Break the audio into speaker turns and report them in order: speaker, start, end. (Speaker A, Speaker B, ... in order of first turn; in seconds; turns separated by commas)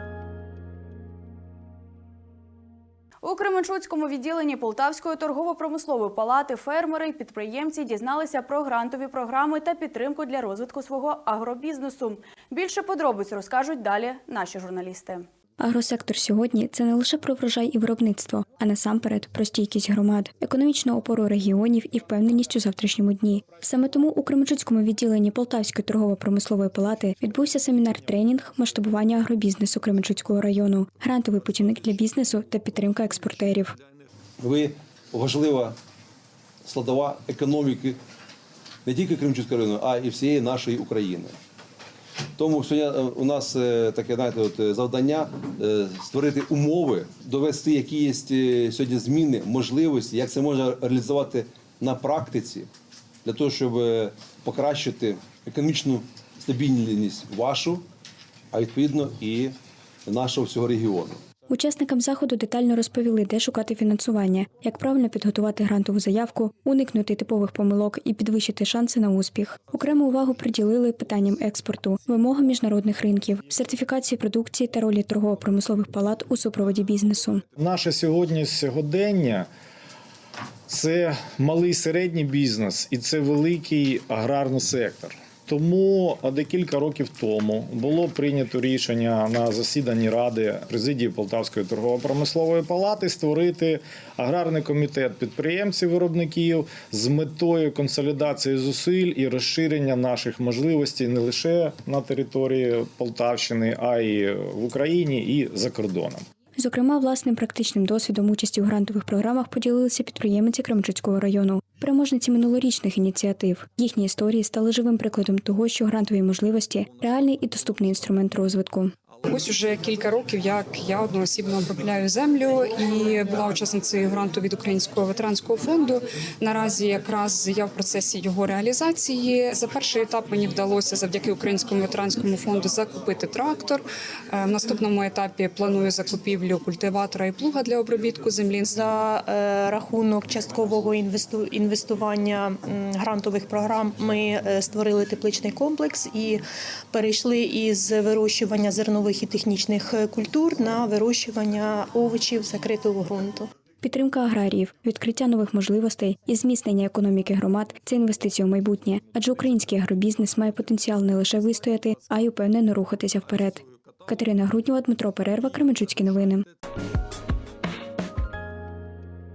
Speaker A: 3.2-15.3, Speaker B: 15.6-33.8, Speaker C: 34.4-35.8, Speaker C: 36.6-38.0, Speaker C: 38.8-41.3, Speaker C: 42.4-52.7, Speaker C: 53.2-57.8, Speaker C: 58.5-59.5, Speaker C: 60.1-61.2, Speaker B: 61.5-77.4, Speaker D: 77.6-79.5, Speaker D: 80.7-106.2, Speaker B: 106.6-118.9, Speaker E: 119.3-133.8, Speaker E: 134.3-139.2, Speaker F: 138.7-153.5, Speaker B: 153.8-166.4